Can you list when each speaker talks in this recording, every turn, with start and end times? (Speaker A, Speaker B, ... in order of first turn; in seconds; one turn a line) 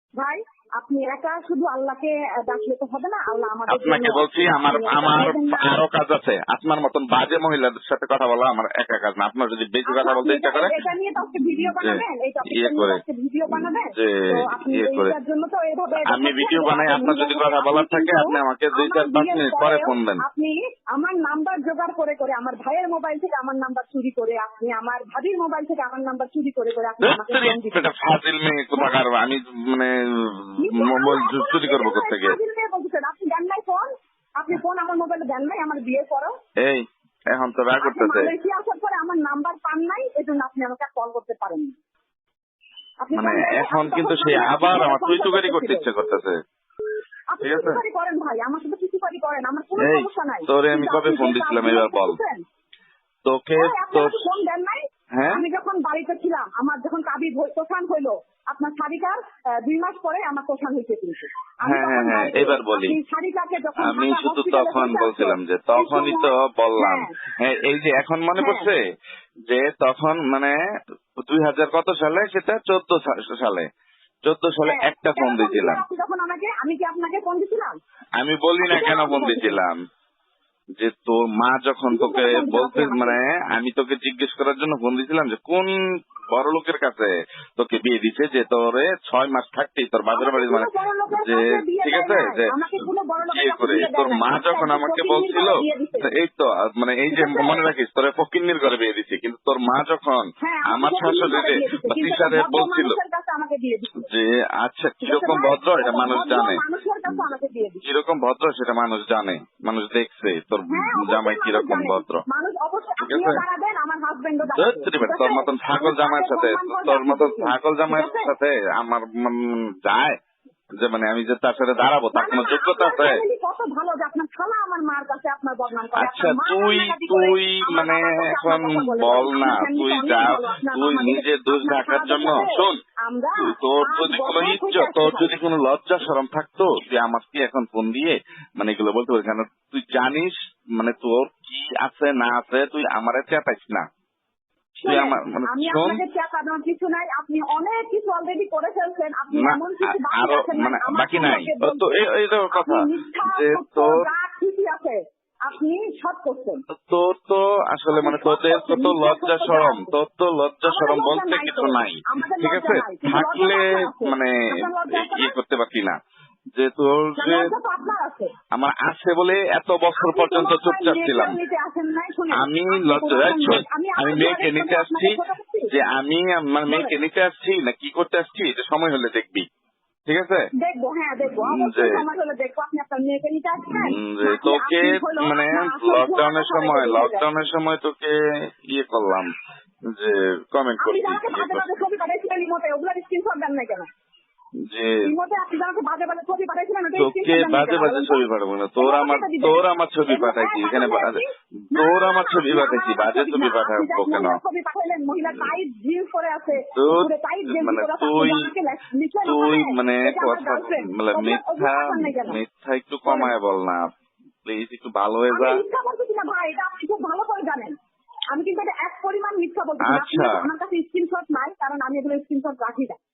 Speaker A: 0.2-5.8
Speaker B: 3.7-10.8
Speaker A: 9.9-27.8
Speaker B: 11.4-15.2
Speaker B: 16.0-20.2
Speaker B: 27.0-32.4
Speaker A: 30.6-36.4
Speaker B: 36.6-38.3
Speaker A: 37.8-41.8
Speaker A: 43.0-46.2
Speaker B: 43.1-46.4
Speaker A: 47.3-52.4
Speaker B: 47.4-47.8
Speaker B: 49.8-52.2
Speaker B: 53.3-54.2
Speaker A: 53.5-67.1
Speaker B: 55.1-55.5
Speaker B: 61.7-63.0
Speaker B: 63.8-68.8
Speaker A: 68.4-68.7
Speaker B: 69.5-70.5
Speaker B: 71.2-73.7
Speaker B: 74.2-75.8
Speaker A: 74.7-77.7
Speaker B: 78.2-79.8
Speaker A: 78.6-79.6
Speaker B: 80.8-92.5
Speaker A: 81.9-83.2
Speaker A: 90.1-96.1
Speaker B: 93.3-103.0
Speaker A: 97.1-97.6
Speaker A: 100.4-104.1
Speaker B: 104.1-107.2
Speaker A: 105.0-107.8
Speaker B: 107.8-112.2
Speaker A: 110.7-118.3
Speaker B: 113.1-113.4
Speaker B: 114.6-120.2
Speaker B: 120.8-123.2
Speaker A: 122.1-135.4
Speaker B: 126.0-132.8
Speaker B: 133.4-143.9
Speaker A: 144.8-151.9
Speaker B: 144.9-146.0
Speaker B: 149.3-154.0
Speaker A: 152.5-156.6
Speaker B: 156.8-166.0
Speaker A: 157.9-160.0
Speaker A: 160.7-165.3
Speaker B: 166.6-167.5
Speaker A: 167.2-168.3
Speaker B: 168.5-171.4
Speaker A: 170.0-175.7
Speaker B: 172.3-179.5
Speaker A: 176.7-176.9
Speaker B: 180.1-180.5
Speaker A: 180.6-187.2
Speaker B: 181.4-182.0
Speaker B: 183.7-189.3
Speaker B: 189.9-191.7
Speaker A: 190.8-193.9
Speaker B: 194.7-195.1
Speaker A: 195.0-198.3
Speaker B: 197.0-201.2
Speaker A: 198.8-212.4
Speaker B: 201.7-204.4
Speaker B: 206.7-208.5
Speaker B: 209.2-213.9
Speaker A: 213.1-213.3
Speaker B: 214.4-215.6
Speaker A: 215.3-217.8
Speaker A: 218.3-223.0
Speaker B: 219.8-220.4